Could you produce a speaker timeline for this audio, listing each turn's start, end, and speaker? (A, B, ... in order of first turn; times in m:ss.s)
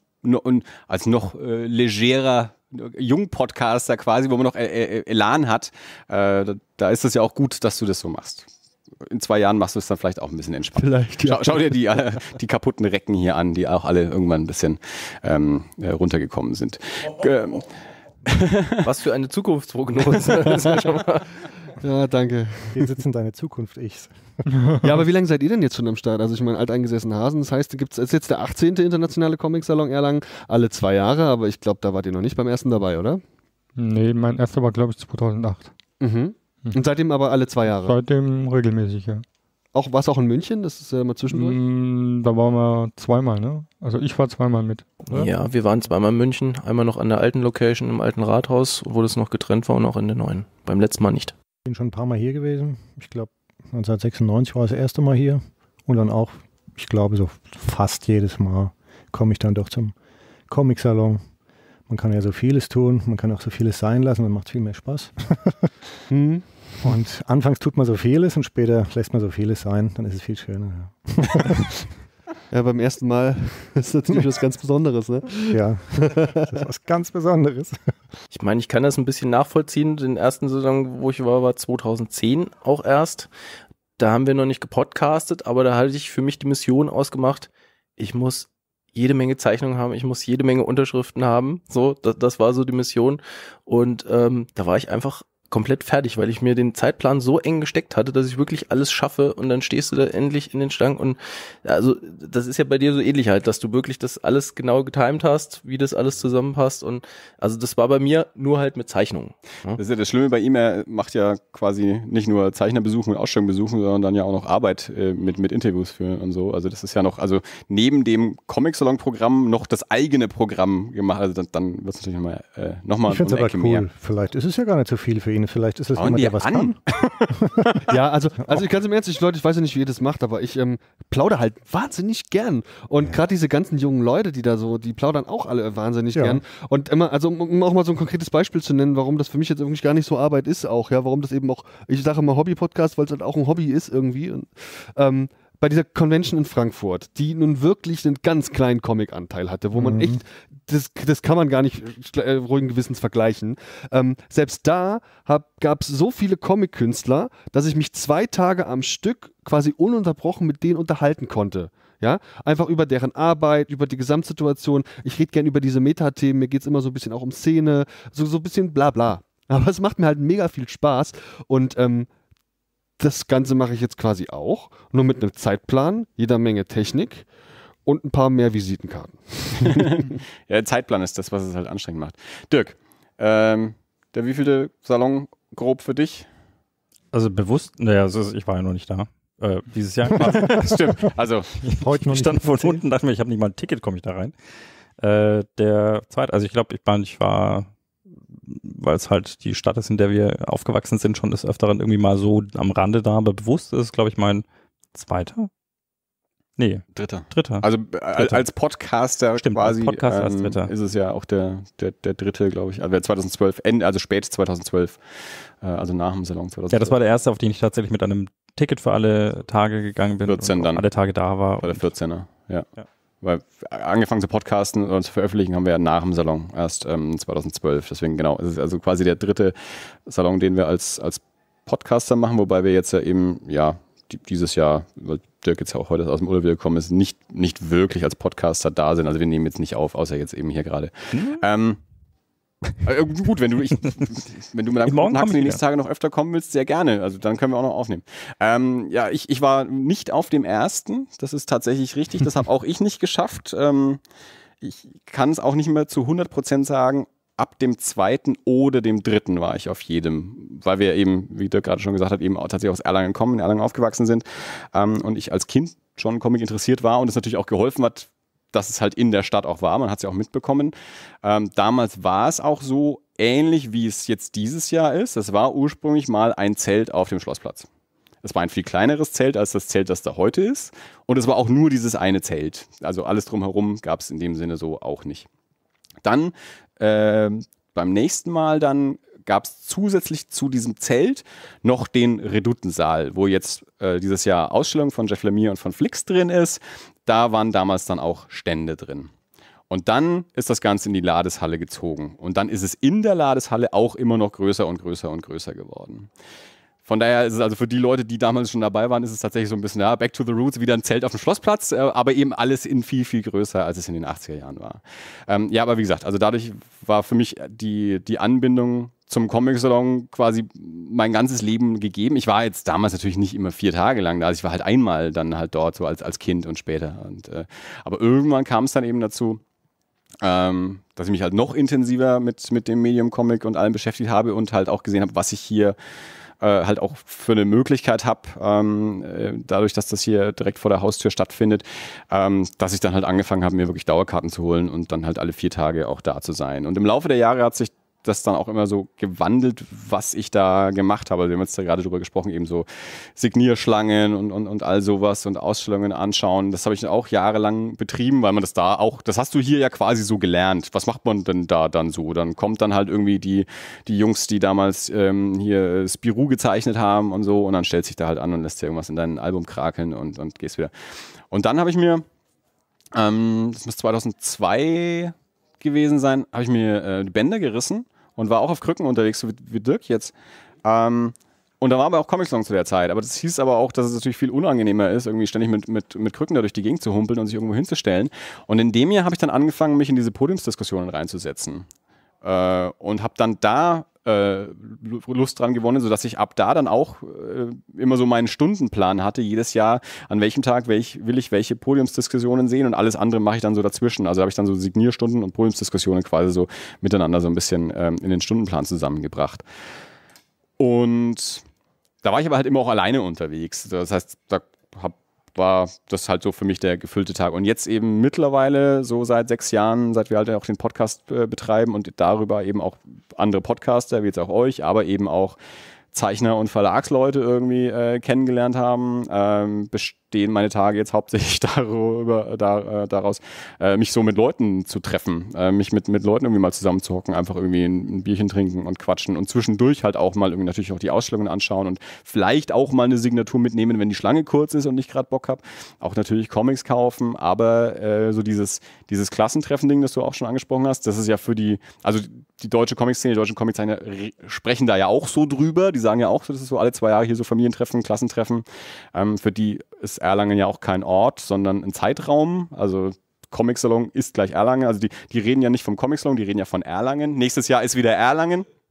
0:00.2-0:08.5 A
0:09.1-0:17.7 A
0:10.8-0:11.8 B
0:18.2-0:18.8 A
0:18.8-0:21.4 C
0:20.2-0:21.0 B
0:21.8-0:22.9 B
0:22.7-0:24.5 D
0:24.5-0:24.9 E
0:24.8-0:33.2 B
0:33.8-0:35.7 E
0:36.0-0:38.0 B
0:37.8-0:39.2 E
0:39.7-0:41.6 B
0:41.3-0:45.3 E
0:45.1-0:51.3 C
0:51.6-0:59.9 D
1:00.5-1:01.2 D
1:01.9-1:05.7 D
1:06.1-1:06.9 B
1:06.8-1:11.8 D
1:12.5-1:16.5 B
1:15.5-1:17.9 D
1:18.3-1:23.3 C
1:24.0-1:49.8 C
1:49.8-2:03.8 A
2:03.0-2:07.7 D
2:06.0-2:07.4 A
2:07.9-2:52.1 B
2:16.1-2:16.4 D
2:29.7-2:30.2 D
2:53.0-2:57.3 B
2:57.8-3:00.0 B
2:59.6-3:06.3 A
3:07.1-3:10.8 F
3:10.1-3:11.5 A
3:11.6-3:14.3 F
3:11.8-3:12.8 D
3:15.0-3:17.7 F
3:18.4-3:25.5 F
3:26.6-3:28.4 F
3:26.9-3:35.0 A
3:29.4-3:30.7 F
3:35.6-3:37.0 A
3:36.7-3:41.9 F
3:40.2-3:40.8 A
3:41.6-3:42.7 A
3:43.2-4:01.8 A
4:01.1-4:01.4 F
4:02.8-4:14.0 A
4:04.8-4:05.6 F
4:14.6-4:37.7 A
4:38.2-4:45.3 A
4:46.0-4:59.1 A
4:59.7-5:06.1 A
5:06.8-5:29.4 A
5:30.2-5:35.8 A
5:36.4-6:10.7 A
6:11.3-6:12.0 A
6:12.9-6:31.7 A
6:32.2-6:49.4 A
6:50.6-6:51.4 A
6:52.0-7:05.4 A
7:05.9-7:48.5 A